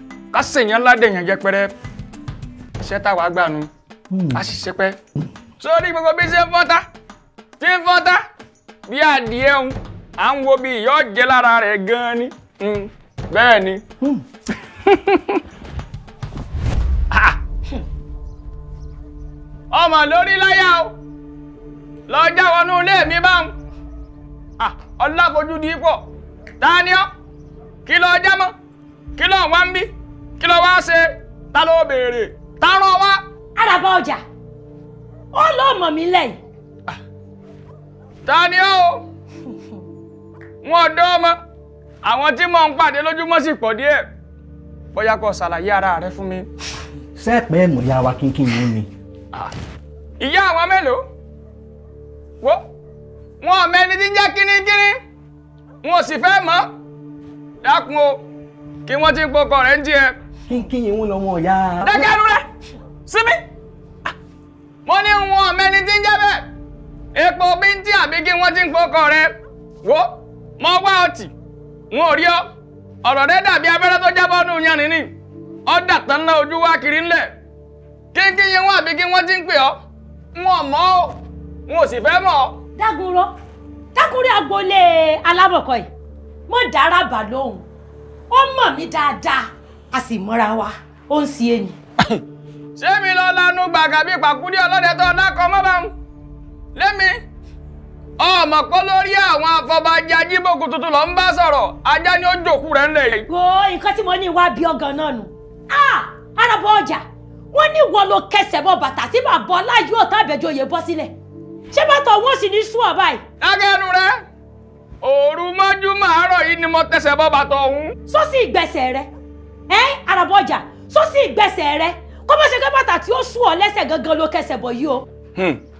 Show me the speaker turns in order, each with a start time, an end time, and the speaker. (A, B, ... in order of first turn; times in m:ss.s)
0:00.3-0:01.7 A
0:02.8-0:03.7 A
0:04.1-0:04.4 B
0:04.4-0:05.0 A
0:05.6-0:06.8 A
0:07.6-0:08.2 A
0:08.9-0:13.8 A
0:19.7-0:20.9 A
0:22.1-0:23.5 A
0:24.6-0:26.0 A
0:26.6-0:27.1 A
0:27.9-0:28.5 A
0:29.2-0:29.9 A
0:30.4-0:33.2 A
0:33.6-0:34.2 C
0:35.3-0:36.4 C
0:38.3-0:39.0 A
0:40.6-0:41.4 A
0:42.0-0:44.0 A
0:44.9-0:46.5 A
0:47.2-0:48.9 B
0:50.2-0:51.0 A
0:53.4-0:55.0 A
0:55.8-0:56.7 A
0:57.6-0:58.2 A
0:58.9-1:00.1 A
1:00.5-1:02.1 B
1:01.8-1:02.4 A
1:03.1-1:03.4 A
1:04.9-1:06.4 A
1:07.2-1:09.3 A
1:09.8-1:11.3 A
1:11.9-1:12.5 A
1:13.0-1:15.1 A
1:15.7-1:17.3 A
1:18.1-1:19.8 A
1:20.4-1:21.2 A
1:21.7-1:22.6 A
1:22.8-1:23.3 C
1:24.0-1:25.9 C
1:26.5-1:27.6 C
1:28.3-1:31.8 C
1:32.8-1:35.9 A
1:36.8-1:37.1 A
1:38.2-1:43.3 A
1:43.3-1:51.1 C
1:51.7-1:53.2 C
1:53.4-1:54.1 A
1:55.0-1:57.9 A
1:58.1-1:59.1 C
1:59.7-2:05.0 C